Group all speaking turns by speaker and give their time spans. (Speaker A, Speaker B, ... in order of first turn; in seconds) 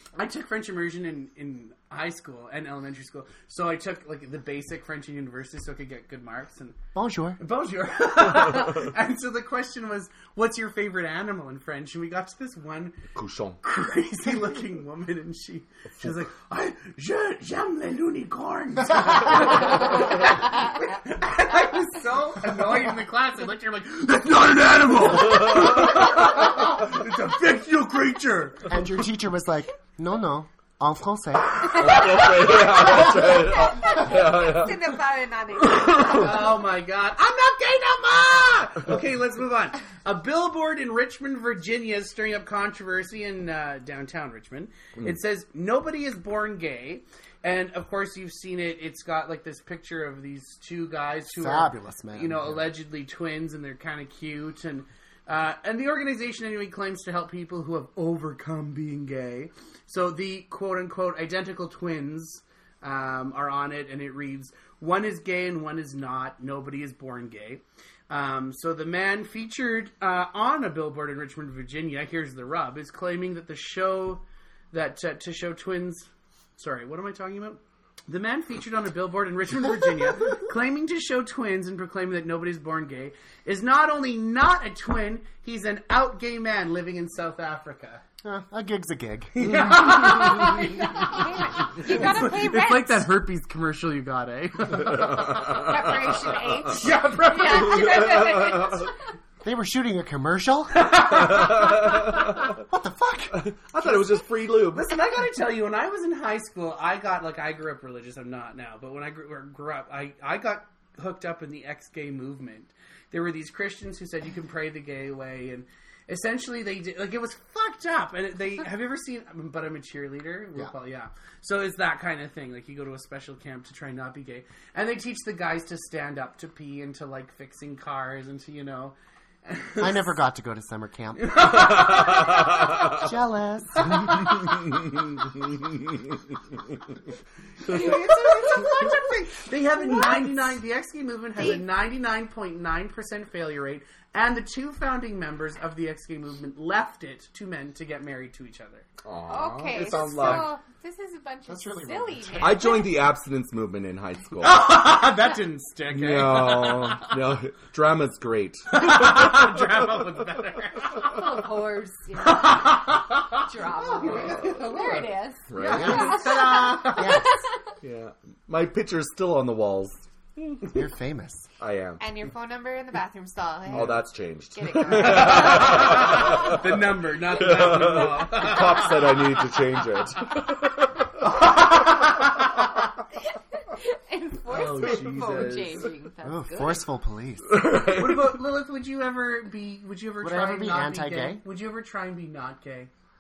Speaker A: 0.1-6.8, 7.4-13.1, 13.6-28.7, 35.8-88.0, 89.3-95.7, 96.7-98.3, 100.7-101.9, 104.7-130.2, 131.2-132.7, 133.8-134.4, 137.6-148.9, 149.7-150.5, 154.4-157.1, 158.7-161.2, 162.2-167.2, 174.9-179.2, 181.2-182.3, 184.5-185.8, 187.8-192.9
Speaker B: 6.9-7.4, 18.9-19.8, 28.7-32.0, 51.3-52.7, 88.2-89.8, 99.4-101.0, 102.5-103.4, 129.8-132.0, 132.9-134.1, 151.5-152.8, 166.9-167.4, 170.7-171.5, 186.2-187.7, 190.2-191.4
Speaker C: 13.2-13.6, 24.9-25.9, 31.6-34.8, 35.8-36.2, 94.9-95.9, 97.4-98.9, 101.0-102.6, 103.3-104.9, 131.9-132.9, 149.0-150.5, 152.4-154.8, 155.9-160.0, 164.0-164.7, 165.5-166.3, 167.8-170.7, 171.6-172.0, 173.7-181.1, 184.8-185.8, 187.5-188.4
Speaker D: 31.7-36.5, 89.9-93.1, 95.3-99.0, 138.4-138.9, 149.3-153.0, 160.9-167.6, 172.0-176.3, 183.7-186.9